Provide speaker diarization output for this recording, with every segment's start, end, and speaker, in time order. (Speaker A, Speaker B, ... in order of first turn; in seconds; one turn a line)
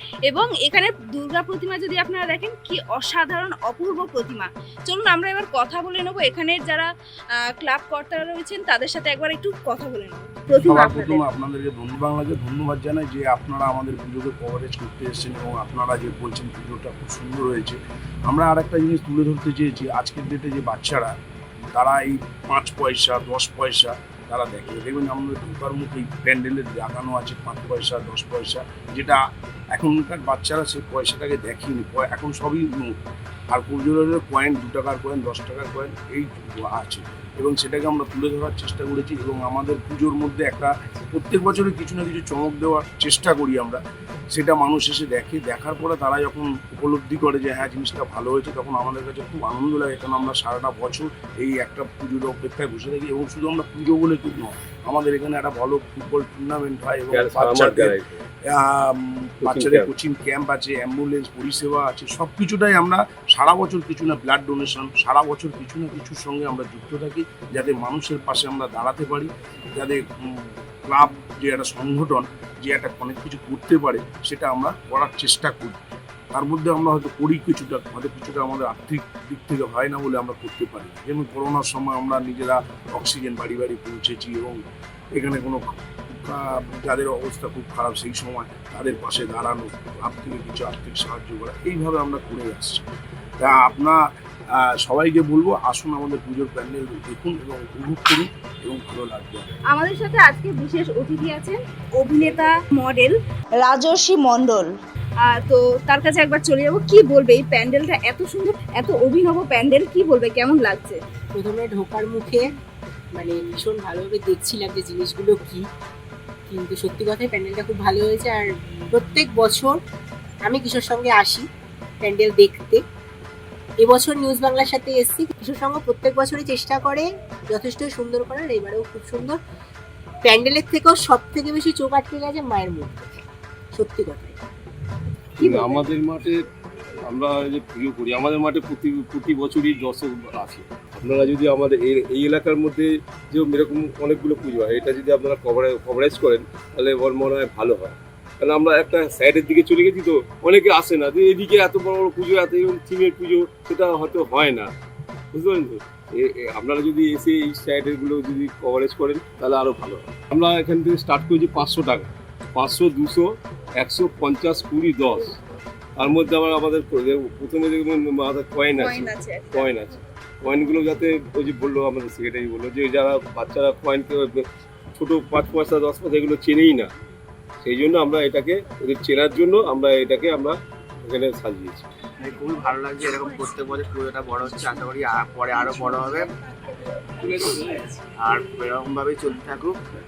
Speaker A: 0.3-6.9
Speaker A: 7.4-11.2
Speaker B: 10.6-21.1
Speaker B: 21.7-33.0
Speaker B: 33.5-43.8
Speaker B: 44.3-75.8
Speaker C: 57.1-58.2
Speaker C: 59.4-59.9
Speaker B: 76.3-84.6
Speaker B: 85.1-92.8
Speaker B: 93.4-94.0
Speaker B: 94.5-99.5
Speaker A: 99.7-111.0
Speaker D: 111.3-112.4
Speaker D: 113.2-115.7
Speaker D: 116.5-119.8
Speaker D: 120.4-121.5
Speaker D: 122.0-122.8
Speaker D: 123.8-129.4
Speaker D: 130.2-133.2
Speaker D: 133.7-134.4
Speaker C: 135.4-136.4
Speaker D: 135.4-135.9
Speaker C: 137.1-154.7
Speaker C: 155.3-165.4
Speaker C: 166.0-176.9
Speaker A: 168.7-169.7
Speaker C: 177.6-181.9
Speaker E: 182.2-186.3
Speaker E: 188.2-189.8